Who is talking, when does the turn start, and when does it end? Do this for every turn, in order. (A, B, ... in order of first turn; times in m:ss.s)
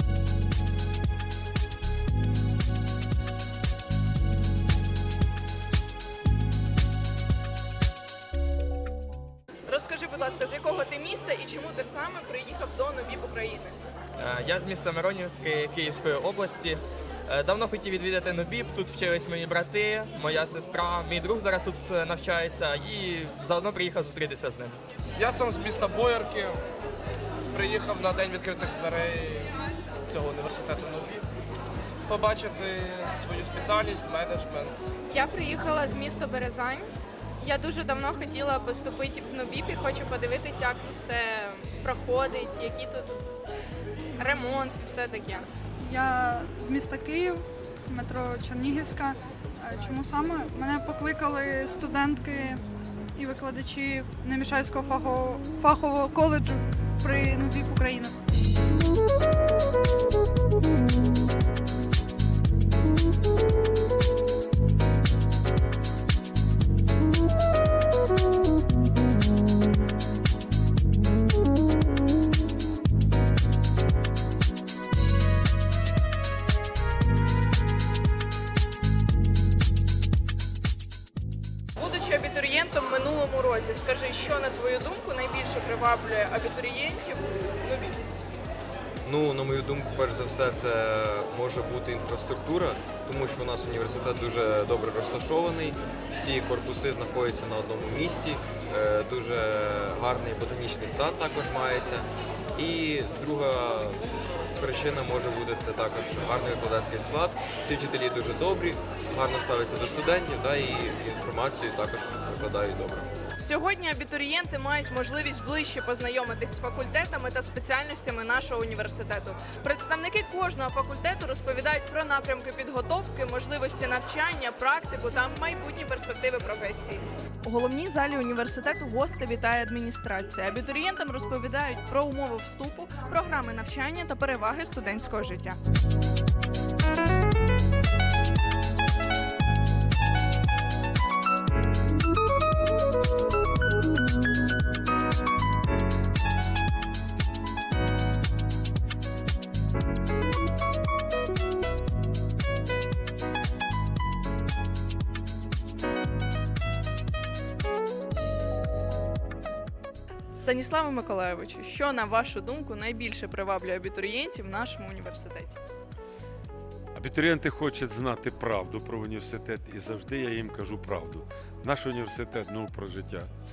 0:09.7-0:13.7 A
0:14.2-0:24.8 B
0:25.2-0:26.6 C
0:27.5-0:29.5 C
0:30.1-0:31.2 C
0:32.1-0:34.8 C
0:35.1-0:43.2 D
0:44.2-0:45.5 D
0:45.8-0:52.6 E
0:53.2-0:58.1 E
1:21.8-1:28.0 A
1:29.0-1:53.1 F
1:53.4-2:15.6 A
2:40.3-2:45.6 A
2:46.9-2:53.3 G